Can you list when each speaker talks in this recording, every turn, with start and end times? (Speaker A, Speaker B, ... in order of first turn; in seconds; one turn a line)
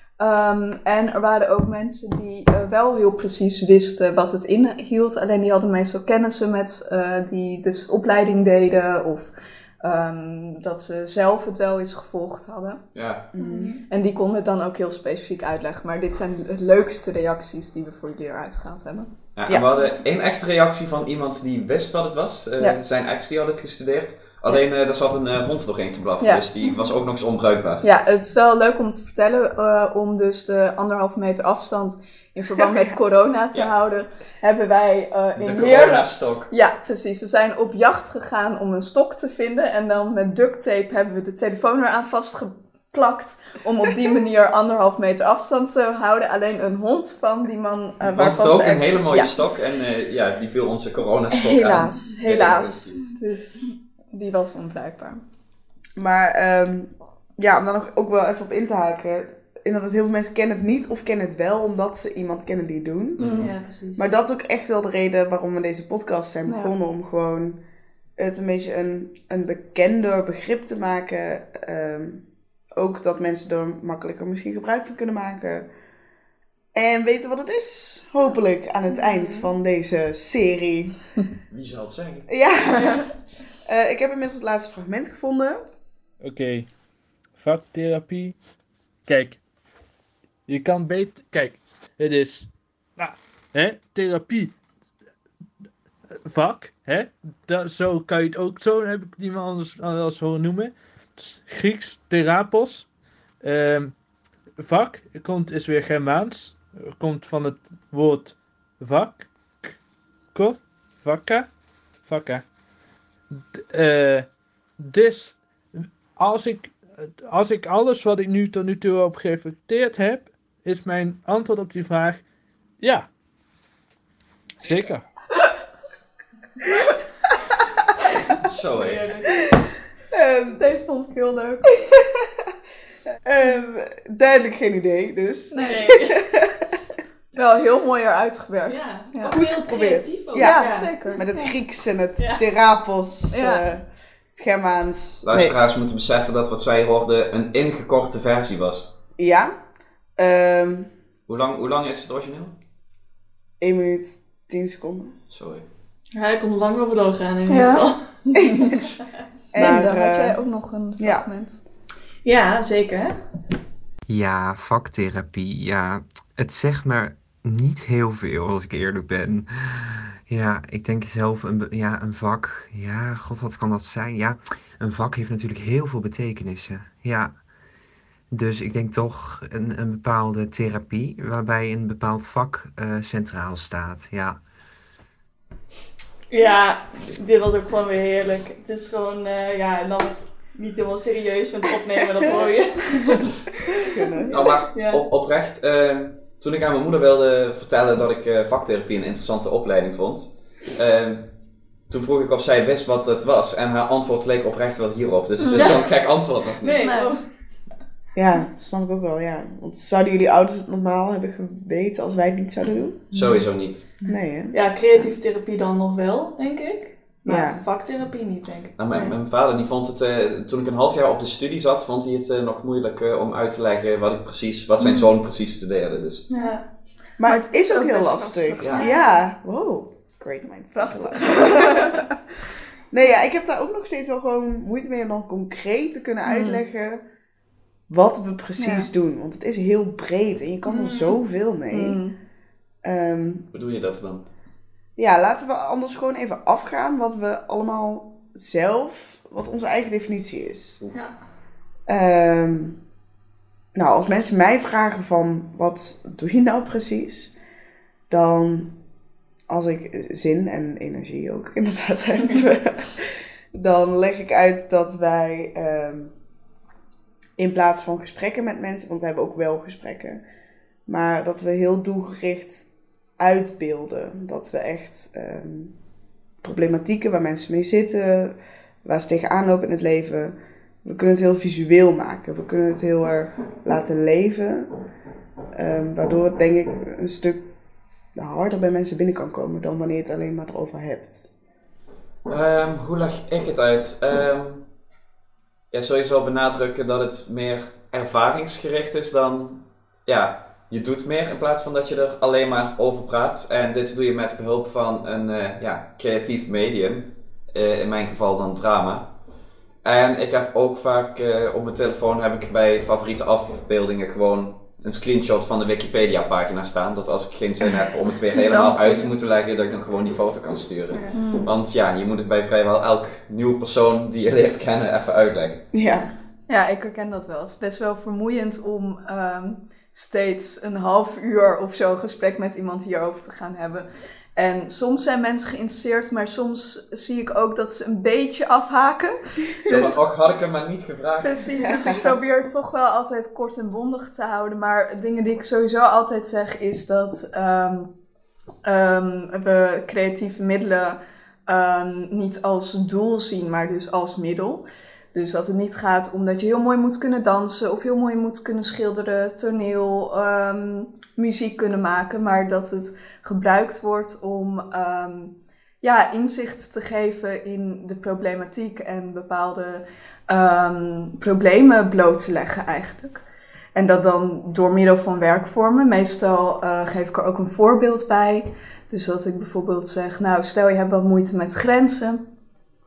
Speaker A: 0.2-12.8
Speaker B: 12.9-13.3
Speaker C: 13.3-13.8
Speaker D: 13.4-13.8
Speaker A: 13.9-19.1
Speaker B: 19.3-27.9
Speaker A: 27.8-49.4
Speaker C: 32.6-32.9
Speaker B: 35.4-36.5
Speaker B: 48.0-53.0
Speaker A: 51.3-55.2
Speaker C: 56.0-63.4
Speaker B: 63.2-63.5
Speaker D: 63.4-64.1
Speaker C: 63.9-67.6
Speaker A: 66.5-66.7
Speaker C: 68.2-75.7
Speaker C: 76.7-81.0
Speaker D: 78.9-79.5
Speaker B: 81.5-82.3
Speaker C: 82.3-85.6
Speaker E: 86.2-86.7
Speaker E: 87.3-88.4
Speaker E: 89.0-89.4
Speaker E: 90.5-94.5
Speaker E: 96.2-102.9
Speaker E: 103.4-104.0
Speaker E: 104.6-109.8
Speaker E: 110.3-111.5
Speaker E: 112.0-112.4
Speaker E: 113.3-114.3
Speaker E: 114.8-122.2
Speaker E: 122.8-123.1
Speaker E: 124.6-125.1
Speaker B: 128.4-129.1
Speaker D: 128.7-129.5
Speaker C: 130.1-130.6
Speaker A: 130.5-131.8
Speaker C: 133.2-136.7
Speaker A: 135.5-135.8
Speaker D: 135.6-136.2
Speaker A: 137.3-139.4
Speaker D: 138.7-141.1
Speaker C: 139.3-145.5
Speaker A: 140.4-141.5
Speaker A: 143.3-143.6
Speaker B: 145.2-148.9
Speaker C: 149.2-149.5
Speaker C: 150.2-150.9
Speaker B: 151.3-152.5
Speaker C: 153.6-155.1
Speaker B: 155.3-155.6
Speaker D: 156.1-158.1
Speaker A: 157.5-158.8
Speaker C: 159.5-160.4
Speaker A: 159.5-161.6
Speaker C: 161.0-161.2
Speaker D: 162.2-163.2
Speaker F: 164.1-177.4
Speaker F: 178.3-184.4
Speaker D: 186.3-193.3
Speaker C: 193.9-194.4
Speaker D: 194.1-195.0
Speaker B: 194.3-206.8
Speaker A: 205.4-205.7
Speaker D: 205.5-205.8
Speaker D: 206.6-207.4
Speaker A: 206.8-207.2
Speaker C: 208.1-213.1
Speaker B: 213.1-213.8
Speaker D: 213.1-213.4
Speaker D: 214.0-219.2
Speaker C: 214.0-215.1
Speaker C: 217.2-217.6
Speaker B: 218.8-226.3
Speaker D: 226.3-226.7
Speaker C: 227.2-232.2
Speaker A: 227.3-229.2
Speaker A: 230.7-232.1
Speaker C: 232.9-237.0
Speaker A: 236.2-236.6
Speaker C: 237.9-242.0
Speaker A: 238.6-238.9
Speaker D: 240.7-241.2
Speaker A: 241.7-242.2
Speaker C: 242.8-243.5
Speaker B: 243.5-244.2
Speaker C: 245.0-250.8
Speaker C: 251.9-252.8
Speaker C: 253.7-257.3
Speaker C: 258.1-258.7
Speaker C: 259.5-266.1
Speaker C: 267.4-270.2
Speaker C: 270.9-275.7
Speaker C: 276.4-284.7
Speaker C: 285.5-287.4
Speaker C: 288.1-291.3
Speaker B: 292.3-294.7
Speaker B: 295.7-309.2
Speaker B: 309.8-325.6
Speaker A: 318.3-319.1
Speaker A: 321.1-321.5
Speaker C: 325.7-326.1
Speaker A: 326.5-339.9
Speaker B: 339.6-341.6
Speaker A: 341.2-347.9
Speaker C: 341.8-342.1
Speaker A: 348.6-373.2
Speaker A: 373.7-382.2